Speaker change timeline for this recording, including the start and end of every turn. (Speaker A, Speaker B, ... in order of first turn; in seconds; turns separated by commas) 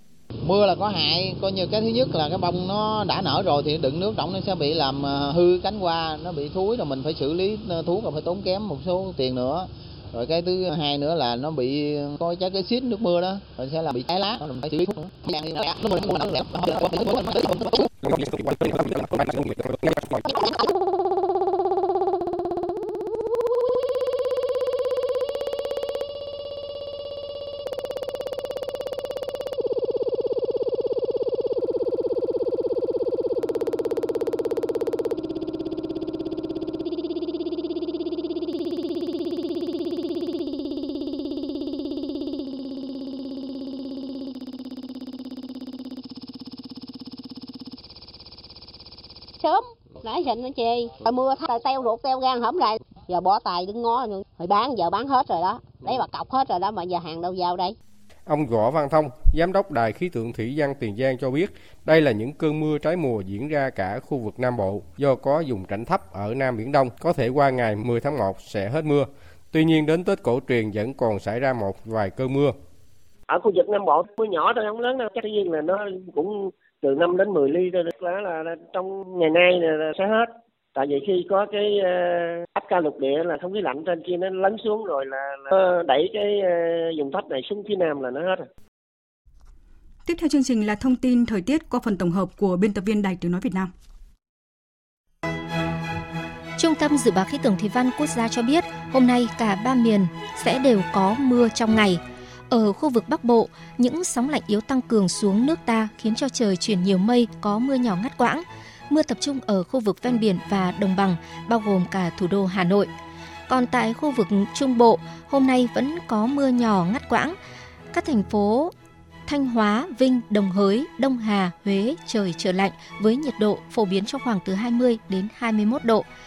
Speaker A: 0.4-17.8, Speaker A: 19.1-19.3, Speaker B: 49.4-57.8, Speaker C: 58.3-72.6, Speaker D: 73.3-88.5, Speaker E: 90.1-93.7, Speaker F: 96.6-112.9, Speaker F: 113.5-117.4, Speaker F: 117.9-118.7, Speaker F: 119.3-126.1